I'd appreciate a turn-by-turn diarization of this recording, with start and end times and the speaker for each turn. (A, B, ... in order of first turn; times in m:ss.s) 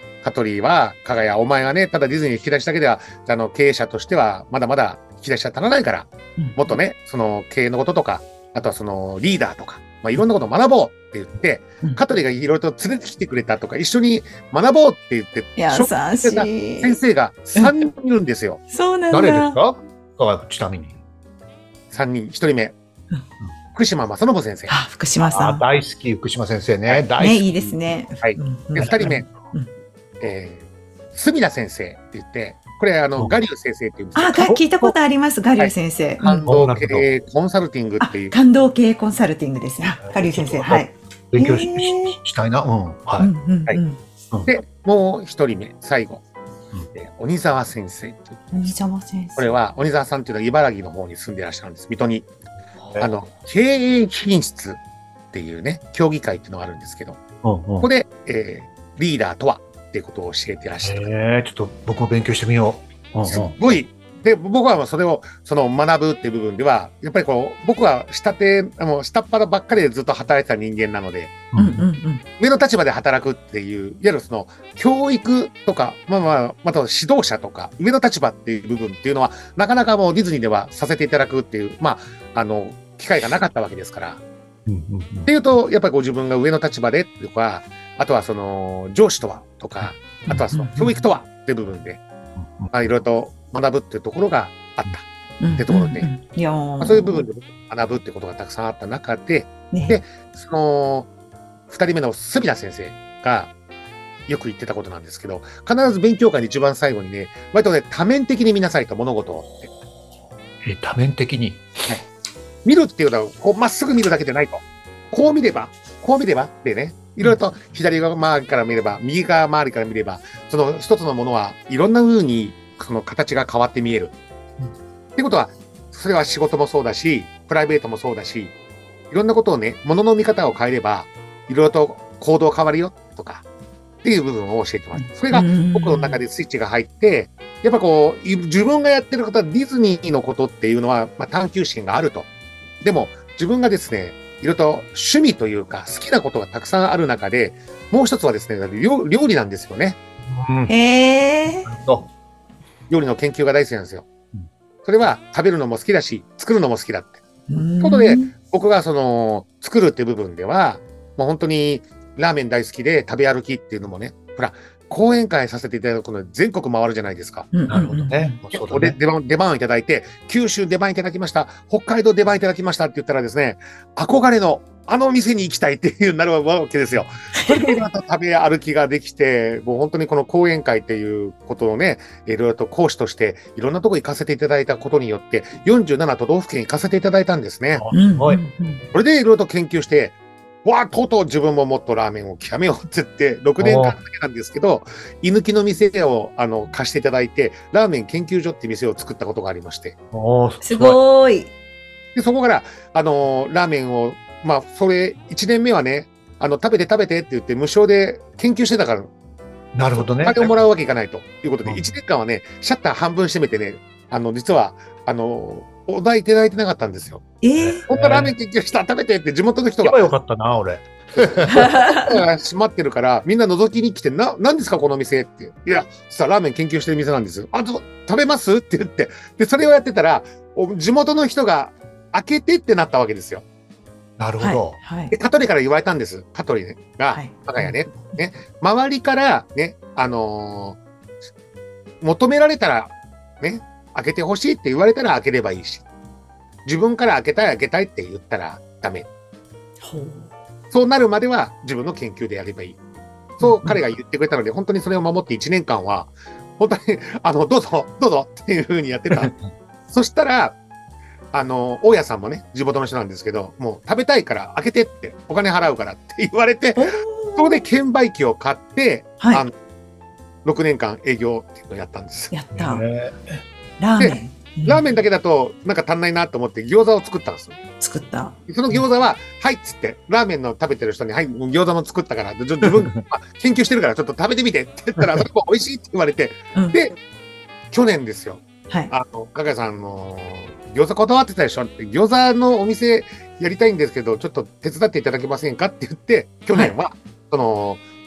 0:00.2-0:18.6 A
0:15.6-0:17.0 B
0:18.7-0:19.6 B
0:19.1-0:21.0 C
0:21.9-0:22.7 A
0:23.7-0:24.7 A
0:24.7-0:25.6 B
0:25.2-0:27.5 C
0:27.2-0:29.7 B
0:28.2-0:29.3 A
0:30.2-0:34.9 A
0:34.1-0:36.6 B
0:35.6-0:38.3 A
0:36.5-0:37.1 C
0:38.0-0:42.2 B
0:40.0-0:43.3 C
0:43.2-0:44.0 B
0:44.5-0:46.2 A
0:46.9-0:48.7 A
0:48.5-0:49.5 B
0:49.4-0:52.3 A
0:53.0-0:54.8 A
0:55.3-0:57.2 A
0:57.4-0:57.9 C
0:57.8-1:01.1 A
1:00.8-1:03.6 C
1:03.2-1:11.3 A
1:11.5-1:11.8 C
1:11.6-1:12.2 B
1:12.4-1:24.2 A
1:24.6-1:25.3 C
1:25.3-1:32.0 A
1:30.3-1:31.0 B
1:32.4-1:32.7 C
1:32.7-1:35.0 A
1:35.4-1:37.3 B
1:35.6-1:36.1 A
1:36.8-1:41.1 A
1:39.7-1:40.0 B
1:41.7-1:43.5 A
1:44.3-1:49.7 A
1:50.6-1:51.6 C
1:52.6-2:04.1 A
2:05.2-2:08.5 A
2:09.1-2:13.4 A
2:14.0-2:22.3 A
2:14.9-2:16.2 B
2:22.8-2:30.0 A
2:30.3-2:30.7 C
2:30.7-2:31.7 B
2:31.6-2:32.1 C
2:32.9-2:34.1 A
2:34.8-2:37.2 A
2:37.5-2:38.3 B
2:37.8-2:47.5 A
2:47.5-2:48.4 B
2:47.7-2:49.0 C
2:48.5-3:07.9 A
2:57.3-2:57.8 B
3:07.7-3:08.4 C
3:07.9-3:08.8 B
3:08.9-3:20.0 A
3:13.6-3:14.0 C
3:20.1-3:21.0 C
3:20.6-3:21.5 B
3:22.1-3:29.1 A
3:29.7-3:30.6 C
3:29.9-3:37.2 A
3:31.6-3:31.9 C
3:37.4-3:37.8 B
3:37.6-3:38.3 C
3:37.9-3:40.0 A
3:39.8-3:41.7 C
3:41.5-3:53.4 A
3:41.5-3:42.2 B
3:54.2-3:54.8 C
3:54.4-3:55.1 B
3:55.1-4:00.8 A
3:57.1-3:58.0 B
4:02.0-4:05.8 A
4:06.6-4:09.1 A
4:09.8-4:10.3 B
4:10.7-4:12.8 A
4:13.4-4:19.3 A
4:13.4-4:13.8 B
4:19.1-4:19.5 C
4:19.9-4:20.6 A
4:21.3-4:29.5 A
4:26.7-4:27.6 B
4:30.4-4:32.3 A
4:32.3-4:32.8 B
4:32.5-4:33.4 C
4:33.8-4:34.8 B
4:34.0-4:37.6 A
4:37.8-4:38.3 B
4:38.5-4:46.9 A
4:47.7-4:57.8 A